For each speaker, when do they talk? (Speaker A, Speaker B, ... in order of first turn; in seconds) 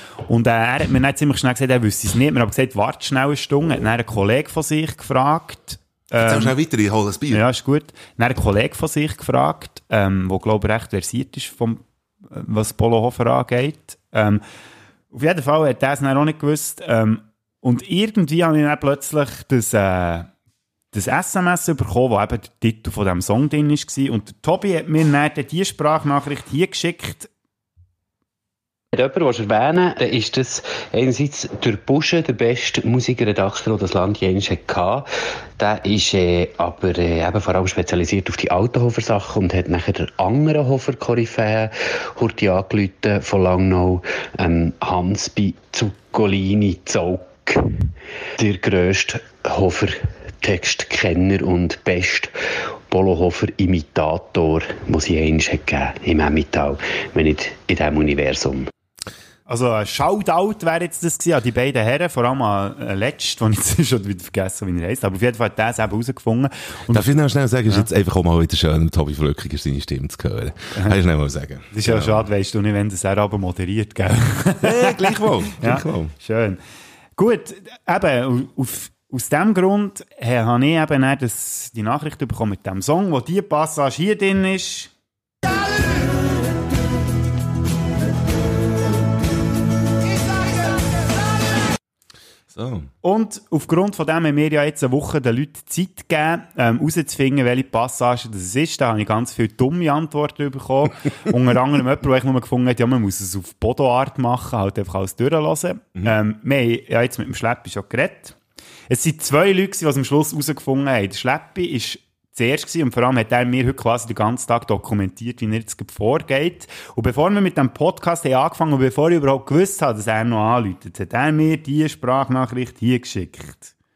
Speaker A: 0.3-6.5, 7.3-14.4, 15.1-20.3, 20.9-27.3, 59.5-67.0, 71.7-76.6, 77.2-84.9, 93.0-108.3, 108.9-123.7
Speaker B: 6.2-7.4, 66.9-72.3, 74.6-76.1, 92.5-92.9
Speaker C: 28.9-35.1, 35.6-47.8, 48.4-52.4, 52.9-58.7